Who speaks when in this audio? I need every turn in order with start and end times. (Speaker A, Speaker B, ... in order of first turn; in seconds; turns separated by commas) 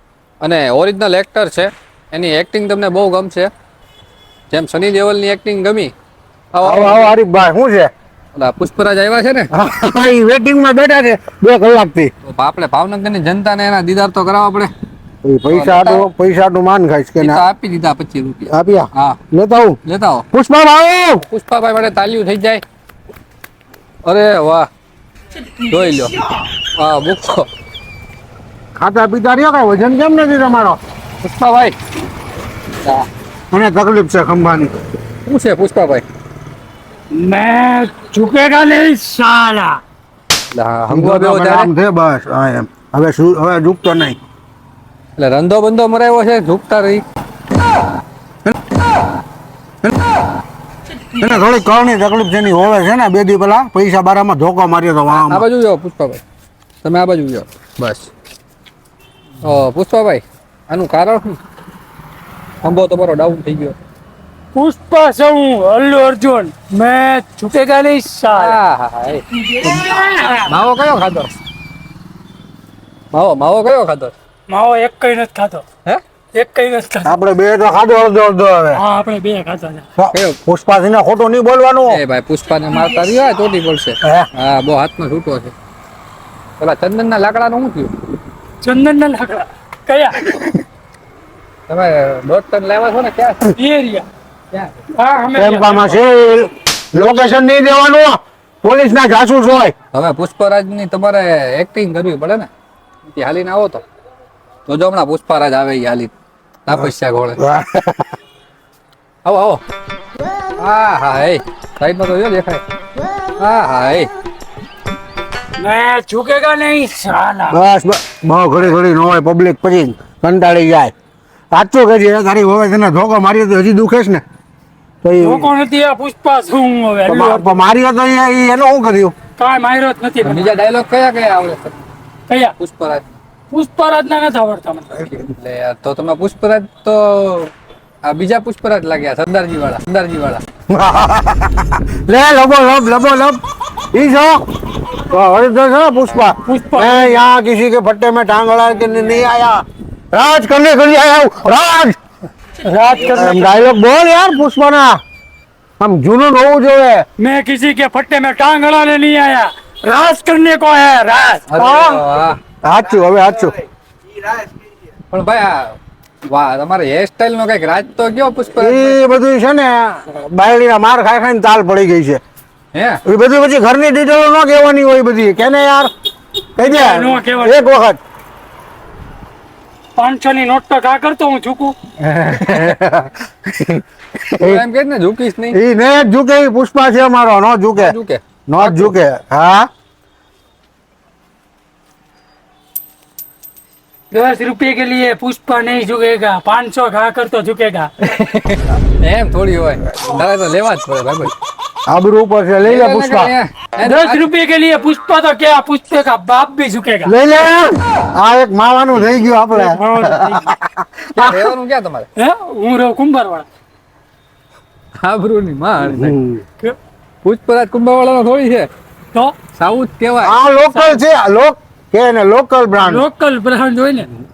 Speaker A: 0.4-3.5, Speaker A: 4.5-5.9, Speaker A: 6.5-7.1, Speaker B: 6.6-7.9, Speaker A: 8.3-9.5, Speaker B: 9.5-12.1, Speaker A: 12.2-14.7, Speaker B: 15.2-17.4, Speaker A: 15.5-16.1, Speaker A: 17.2-19.2, Speaker B: 18.5-19.8, Speaker A: 19.9-20.2, Speaker B: 20.3-21.2, Speaker A: 21.2-22.6, Speaker A: 24.0-24.7, Speaker A: 25.7-26.2, Speaker A: 26.8-27.5, Speaker B: 28.7-30.8, Speaker A: 31.2-31.7, Speaker B: 33.5-34.7, Speaker A: 35.2-36.0, Speaker C: 37.1-39.8, Speaker A: 40.5-41.7, Speaker B: 40.9-44.2, Speaker A: 45.2-47.0, Speaker B: 51.2-55.4, Speaker A: 55.1-56.2, Speaker A: 56.8-58.1, Speaker A: 59.4-61.4, Speaker A: 62.6-63.8, Speaker C: 64.5-68.6, Speaker A: 68.3-71.3, Speaker C: 69.3-70.5, Speaker A: 73.1-74.1, Speaker C: 74.5-75.6, Speaker C: 76.3-77.1, Speaker B: 77.0-78.8, Speaker C: 78.8-79.8, Speaker B: 80.0-82.0, Speaker A: 81.9-85.5, Speaker B: 84.0-84.3, Speaker A: 86.6-87.9, Speaker C: 88.6-90.2, Speaker A: 91.7-93.5, Speaker C: 93.5-94.0, Speaker C: 94.9-96.0, Speaker B: 95.3-99.7, Speaker A: 99.9-102.5, Speaker A: 103.1-103.8, Speaker A: 104.7-106.1, Speaker A: 106.6-107.4, Speaker B: 106.7-108.1, Speaker A: 109.2-109.6, Speaker A: 110.6-112.6, Speaker A: 113.4-114.1, Speaker C: 115.6-117.6, Speaker B: 117.5-120.9, Speaker B: 121.5-124.2, Speaker B: 125.0-125.5, Speaker C: 125.2-127.5, Speaker B: 127.1-129.1, Speaker C: 129.4-130.5, Speaker A: 130.2-131.8, Speaker C: 132.3-132.5, Speaker A: 132.6-133.1, Speaker C: 133.5-135.0, Speaker A: 135.1-137.5, Speaker A: 138.0-140.4, Speaker B: 140.7-143.4, Speaker B: 143.9-152.0, Speaker C: 146.5-147.2, Speaker C: 152.6-153.7, Speaker B: 153.1-155.0, Speaker B: 155.8-157.0, Speaker C: 157.2-161.4, Speaker A: 161.5-162.4, Speaker B: 161.5-162.0, Speaker B: 162.6-163.6, Speaker A: 165.1-165.8, Speaker A: 166.3-169.0, Speaker B: 168.6-172.2, Speaker A: 172.7-173.0, Speaker B: 173.0-175.9, Speaker B: 176.6-178.0, Speaker C: 176.6-177.6, Speaker C: 179.9-181.8, Speaker B: 182.0-184.6, Speaker A: 184.4-185.6, Speaker B: 185.5-187.9, Speaker A: 187.8-188.9, Speaker B: 188.5-189.7, Speaker C: 194.1-197.9, Speaker A: 198.5-201.3, Speaker B: 201.9-203.3, Speaker A: 202.6-204.2, Speaker C: 203.8-207.1, Speaker B: 207.1-211.5, Speaker C: 209.5-210.5, Speaker A: 211.2-212.1, Speaker C: 212.2-213.4, Speaker A: 215.0-216.2, Speaker B: 215.8-216.4, Speaker A: 217.2-218.7, Speaker A: 219.6-220.3, Speaker B: 220.2-223.0, Speaker C: 220.7-221.0, Speaker C: 222.8-224.1